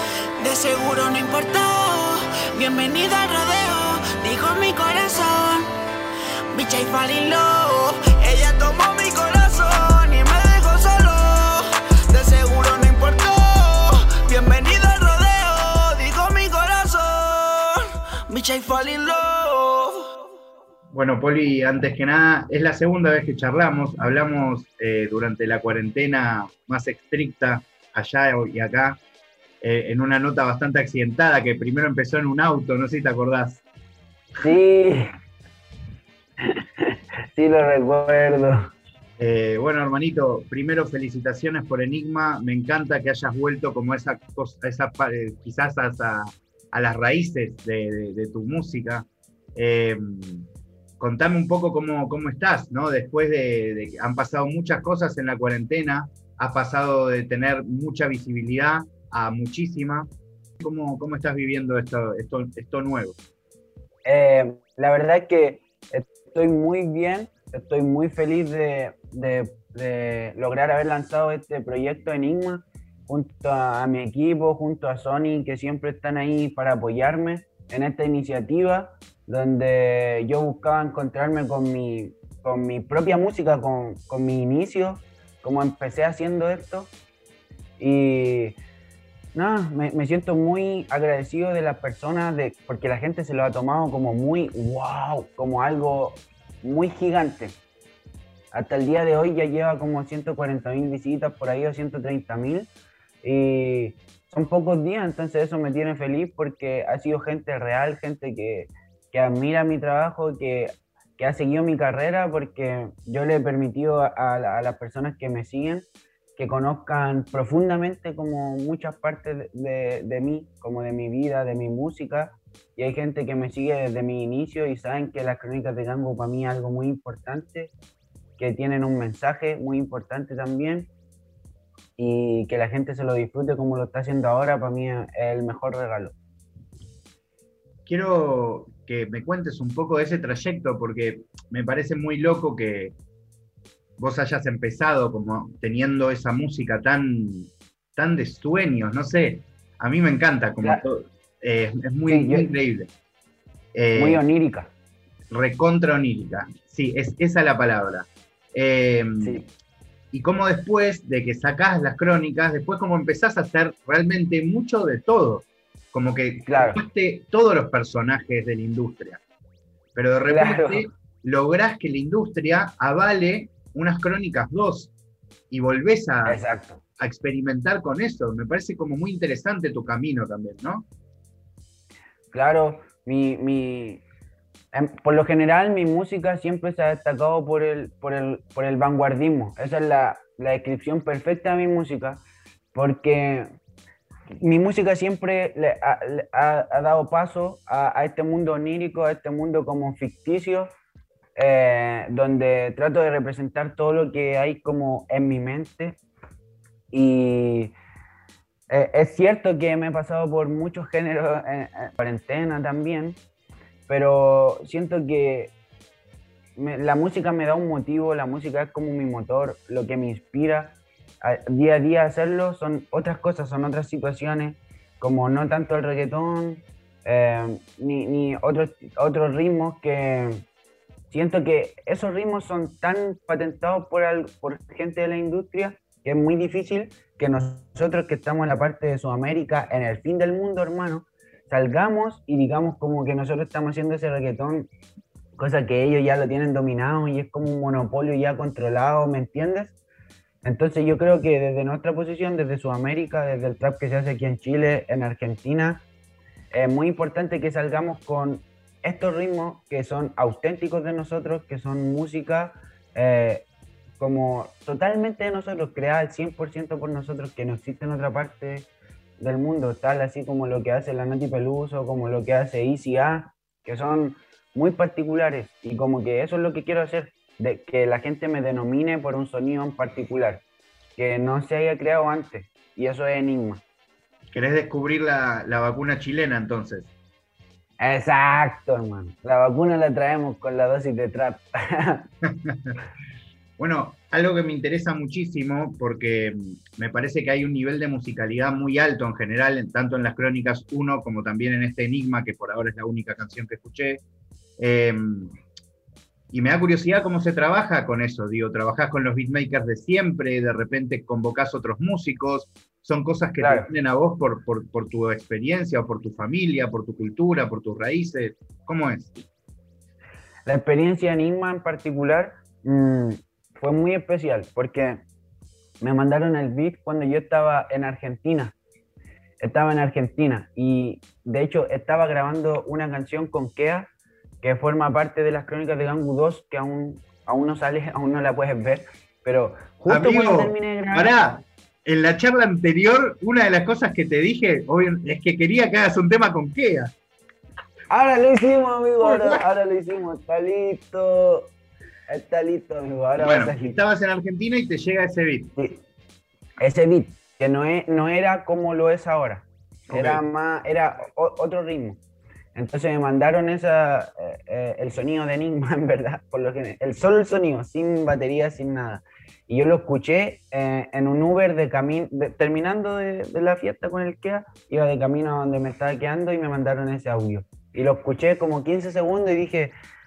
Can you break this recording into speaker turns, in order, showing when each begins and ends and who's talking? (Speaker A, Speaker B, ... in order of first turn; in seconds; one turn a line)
Speaker A: 0.4-5.7
Speaker A: 6.5-20.1
Speaker B: 20.9-29.0
Speaker B: 29.6-33.6
Speaker C: 34.4-35.1
Speaker C: 36.4-38.6
Speaker B: 39.2-50.5
Speaker B: 51.0-60.1
Speaker B: 60.6-63.1
Speaker C: 64.0-86.9
Speaker C: 87.8-88.6
Speaker C: 89.3-97.6
Speaker C: 98.5-102.7
Speaker C: 103.2-115.9
Speaker C: 116.4-127.7
Speaker C: 128.4-130.9
Speaker C: 132.0-136.2
Speaker B: 137.9-142.9
Speaker B: 144.0-152.9
Speaker C: 152.1-152.5
Speaker B: 153.8-154.2
Speaker C: 154.0-154.7
Speaker B: 155.3-159.4
Speaker C: 159.2-159.4
Speaker B: 160.1-169.2
Speaker C: 166.5-166.8
Speaker B: 169.9-174.9
Speaker C: 170.3-170.9
Speaker B: 175.5-176.4
Speaker C: 176.3-176.8
Speaker B: 177.0-180.9
Speaker C: 182.3-184.0
Speaker C: 184.7-192.2
Speaker C: 192.7-193.5
Speaker C: 194.4-200.7
Speaker C: 201.4-206.0
Speaker C: 206.9-207.7
Speaker C: 208.7-213.2
Speaker C: 213.9-215.5
Speaker C: 216.6-230.4
Speaker C: 231.1-244.7
Speaker C: 245.4-249.8
Speaker C: 250.4-255.8
Speaker C: 256.5-263.5
Speaker C: 264.0-268.7
Speaker C: 269.2-280.4
Speaker C: 281.0-283.6
Speaker B: 284.3-286.9
Speaker C: 287.8-292.1
Speaker B: 292.3-292.8
Speaker B: 293.6-304.0
Speaker B: 304.6-305.4
Speaker B: 306.3-319.2
Speaker C: 313.4-313.7
Speaker C: 320.5-325.0
Speaker C: 325.8-328.6
Speaker C: 329.4-333.9
Speaker C: 334.4-341.1
Speaker B: 339.9-346.9
Speaker C: 347.9-351.5
Speaker B: 349.0-349.4
Speaker C: 352.1-353.8
Speaker B: 353.2-355.5
Speaker C: 356.6-362.0
Speaker B: 359.9-360.2
Speaker C: 362.6-379.7